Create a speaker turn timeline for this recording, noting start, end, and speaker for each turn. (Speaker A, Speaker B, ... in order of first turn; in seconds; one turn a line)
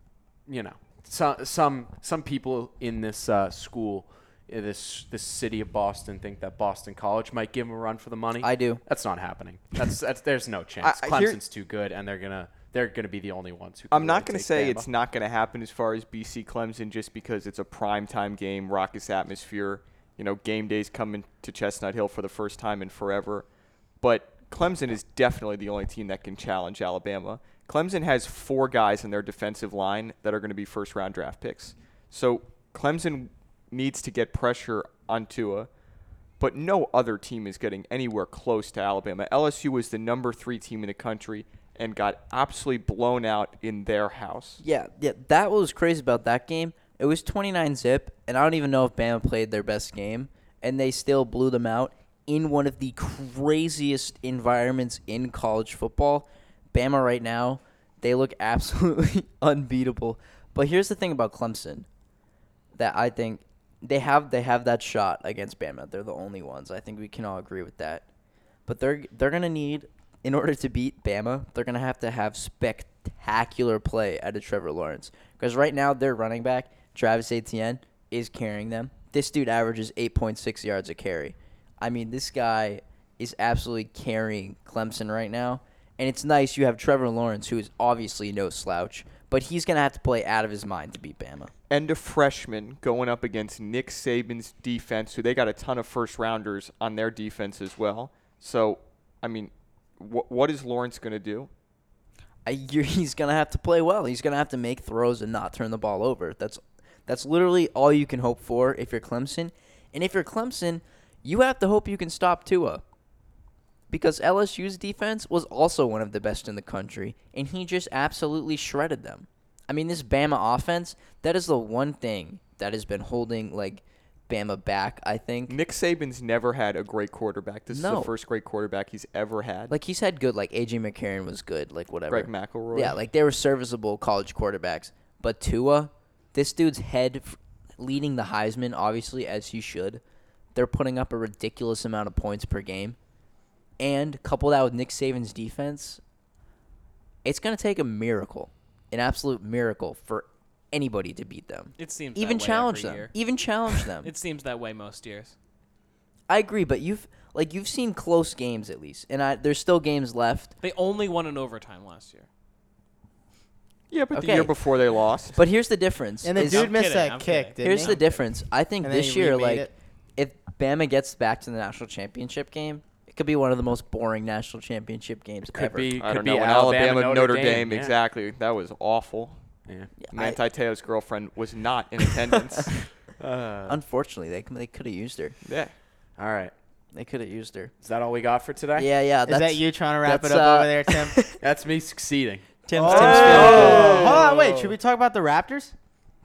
Speaker A: 0.4-14.9
Speaker B: 8.4-8.8
Speaker C: 10.8-11.4
Speaker C: 13.9-35.7
Speaker C: 36.3-44.6
Speaker B: 44.6-61.9
Speaker B: 62.7-68.0
Speaker B: 68.7-91.5
Speaker C: 91.7-101.5
Speaker B: 102.4-112.8
Speaker B: 113.9-125.6
Speaker C: 125.5-129.7
Speaker B: 127.7-128.1
Speaker B: 129.7-140.0
Speaker C: 132.1-133.0
Speaker B: 140.5-143.0
Speaker B: 143.8-146.0
Speaker B: 147.2-154.1
Speaker D: 151.8-153.2
Speaker D: 153.7-155.3
Speaker B: 156.3-160.5
Speaker D: 160.6-162.3
Speaker C: 163.9-165.4
Speaker B: 164.1-164.5
Speaker B: 165.3-166.7
Speaker E: 166.2-169.7
Speaker D: 166.3-168.0
Speaker B: 167.6-175.9
Speaker A: 175.5-177.9
Speaker C: 176.0-179.4
Speaker A: 179.7-179.9
Speaker B: 180.0-180.4
Speaker C: 180.1-182.8
Speaker A: 183.2-183.8
Speaker B: 183.7-185.4
Speaker C: 185.4-185.7
Speaker A: 186.2-186.5
Speaker B: 186.9-187.7
Speaker A: 187.8-188.9
Speaker B: 188.8-191.4
Speaker E: 189.2-191.3
Speaker A: 191.3-194.8
Speaker B: 192.6-194.2
Speaker E: 192.8-195.7
Speaker C: 192.8-194.3